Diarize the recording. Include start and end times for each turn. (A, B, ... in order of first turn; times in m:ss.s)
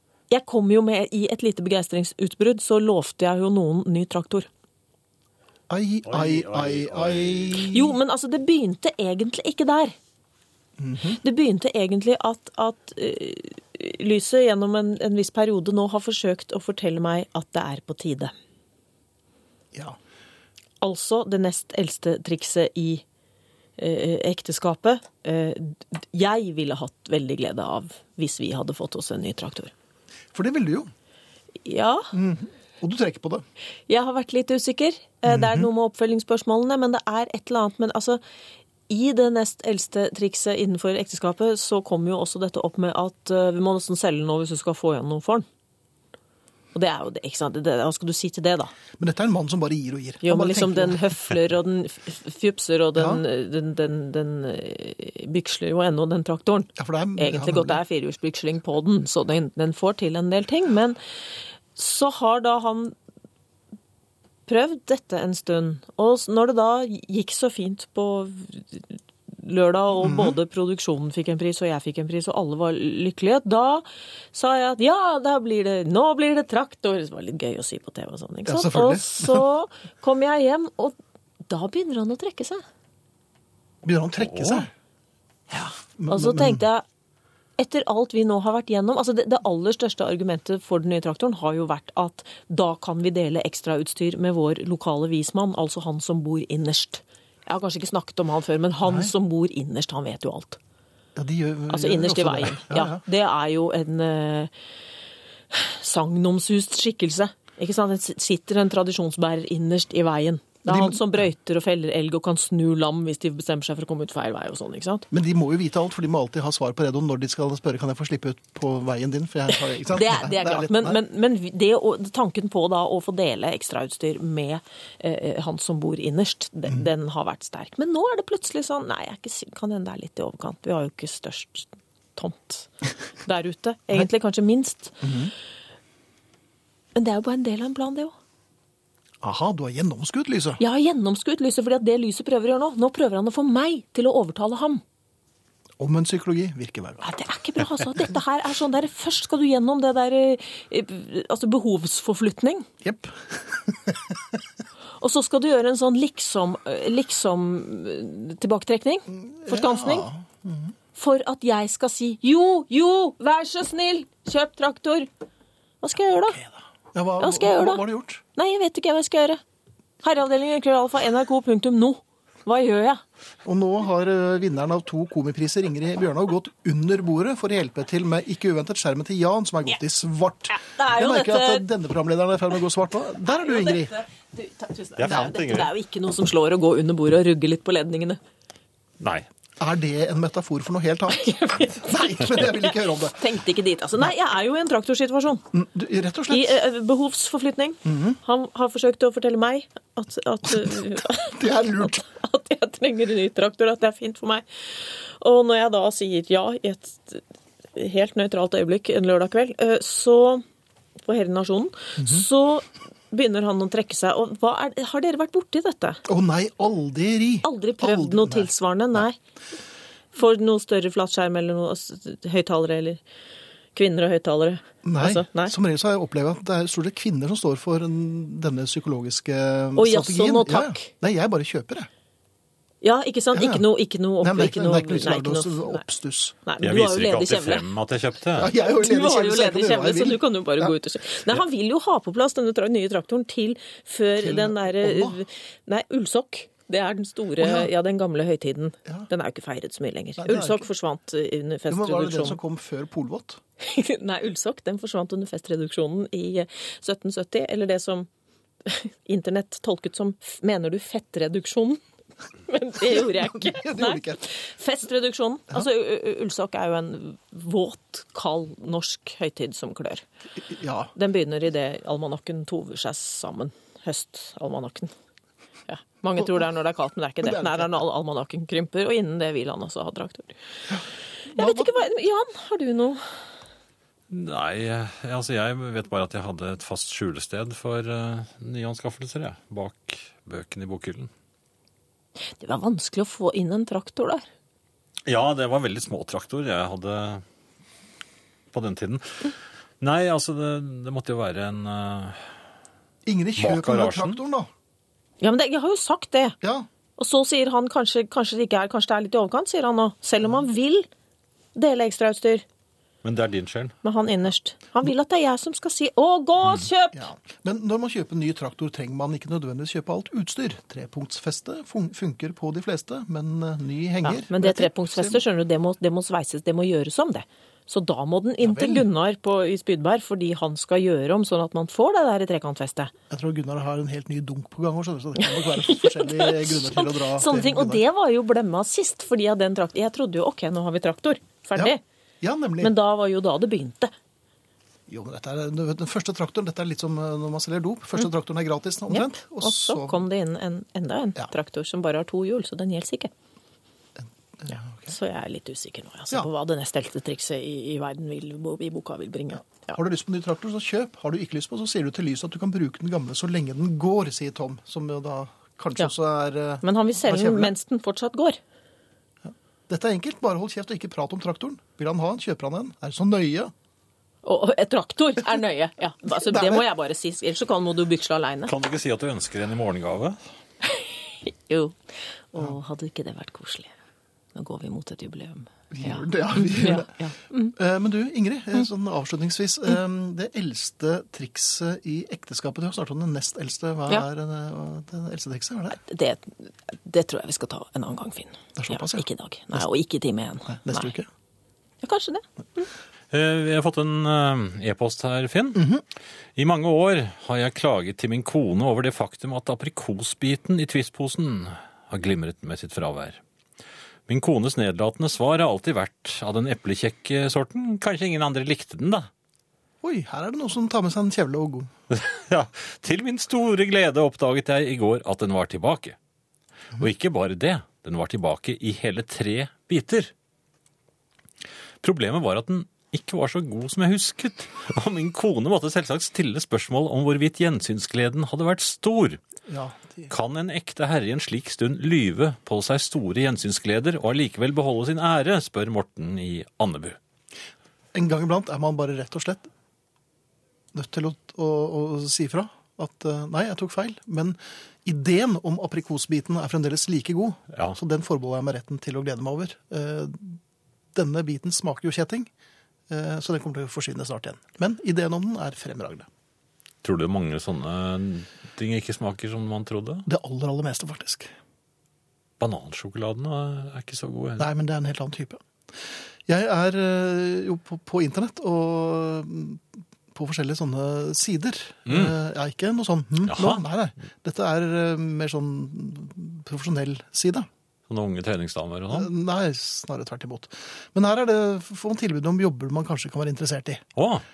0:00.3-0:04.5 A
0:05.7-0:08.0 B
0:06.0-0:07.7 C
0:07.7-0:10.0 A
0:10.8-0:11.2 B
0:11.2-0:18.3 A
0:20.8-0:23.0 A
0:23.8-0:29.7 A
0:30.3-0:30.9 B
0:31.6-0:32.1 A
0:32.1-0:33.4 B
0:33.9-0:38.2 A
0:35.2-0:35.7 B
0:38.9-0:45.5 A
0:46.7-0:48.7 A
0:49.0-0:51.0 B
0:50.2-1:01.0 A
0:53.0-0:53.2 B
0:56.8-0:57.8 B
1:01.8-1:03.0 A
1:04.5-1:21.0 A
1:10.0-1:10.4 B
1:18.5-1:19.5 B
1:21.5-1:22.6 A
1:23.8-1:24.7 B
1:24.2-1:24.6 C
1:25.5-1:26.8 A
1:26.0-1:26.6 B
1:27.6-1:40.6 A
1:38.8-1:39.1 B
1:41.2-1:43.0 B
1:41.7-1:44.5 A
1:45.5-1:55.1 A
1:50.6-1:51.1 B
1:55.1-2:01.0 B
1:59.9-2:12.7 A
2:13.2-2:15.0 A
2:15.0-2:15.3 B
2:17.0-2:18.1 A
2:19.2-2:20.6 B
2:20.6-2:24.8 A
2:25.8-2:27.1 B
2:27.0-2:32.7 A
2:32.8-2:34.2 B
2:35.0-2:40.1 A
2:39.1-2:40.7 B
2:41.0-2:45.1 A
2:45.8-2:46.4 A
2:46.3-2:48.2 B
2:47.2-2:47.8 A
2:48.4-2:49.4 A
2:50.0-2:53.0 A
2:53.4-3:04.0 B
3:00.5-3:01.6 A
3:03.3-3:08.2 A
3:05.0-3:05.7 C
3:09.0-3:09.3 C
3:09.6-3:13.2 B
3:11.1-3:15.4 A
3:15.5-3:16.6 B
3:16.3-3:27.2 A
3:17.8-3:18.2 B
3:20.6-3:22.0 B
3:27.8-3:30.4 A
3:31.0-3:36.0 A
3:32.0-3:32.2 B
3:36.0-3:38.5 B
3:37.4-3:39.2 A
3:40.1-3:43.0 A
3:43.8-3:45.5 A
3:44.8-3:51.9 B
3:49.8-3:50.9 A
3:52.8-3:55.8 A
3:53.3-3:53.6 B
3:54.2-3:56.4 B
3:56.5-3:57.7 A
3:56.6-3:58.5 C
3:58.4-4:00.8 B
3:58.6-4:12.4 A
4:04.2-4:05.2 B
4:07.4-4:07.7 B
4:10.2-4:10.6 B
4:11.7-4:13.4 B
4:13.6-4:18.1 A
4:18.6-4:21.8 A
4:22.5-4:30.0 A
4:22.9-4:24.2 B
4:30.5-4:30.9 B
4:30.9-4:34.9 A
4:35.7-4:40.3 A
4:37.2-4:37.7 B
4:40.7-4:41.7 B
4:41.3-4:43.0 A
4:44.1-4:51.1 C
4:52.3-4:54.2 A
4:55.0-4:57.2 C
4:58.5-5:02.2 C
5:03.0-5:04.5 B
5:03.4-5:04.2 C
5:05.2-5:06.4 A
5:06.4-5:06.7 B
5:07.0-5:10.9 A
5:11.5-5:12.4 A
5:13.0-5:13.8 C
5:13.8-5:17.1 A
5:16.9-5:25.2 B
5:24.0-5:32.9 A
5:28.4-5:28.9 B
5:33.1-5:37.8 B
5:35.2-5:41.8 A
5:41.6-5:42.7 B
5:42.6-5:43.9 A
5:44.9-5:50.0 B
5:48.9-5:53.1 A
5:54.0-5:54.9 B
5:54.9-5:59.8 A
5:59.7-6:07.5 B
6:06.6-6:08.4 A
6:09.2-6:13.5 B
6:14.2-6:18.5 A
6:16.2-6:16.6 B
6:18.5-6:20.2 C
6:20.6-6:21.8 A
6:22.3-6:23.7 A
6:24.4-6:27.5 A
6:25.7-6:27.0 B
6:27.5-6:35.8 B
6:35.8-6:40.9 A
6:38.6-6:39.6 B
6:40.5-6:41.1 B
6:41.8-6:42.7 A
6:43.1-6:45.7 C
6:45.5-6:45.8 B
6:46.4-6:53.2 C
6:54.1-6:59.1 C
6:59.8-7:01.7 B
7:01.9-7:06.0 C
7:06.8-7:10.1 C
7:11.8-7:19.2 C
7:19.5-7:20.1 B
7:20.1-7:27.0 C
7:27.9-7:29.5 B
7:30.7-7:40.4 B
7:40.9-7:42.3 B
7:42.9-7:46.1 B
7:46.8-7:50.0 C
7:50.0-7:51.3 B
7:52.4-7:54.5 C
7:54.4-7:55.4 B
7:56.3-8:07.5 B
8:01.9-8:02.2 C
8:03.3-8:03.6 C
8:07.9-8:09.1 C
8:08.9-8:13.8 B
8:14.0-8:14.2 C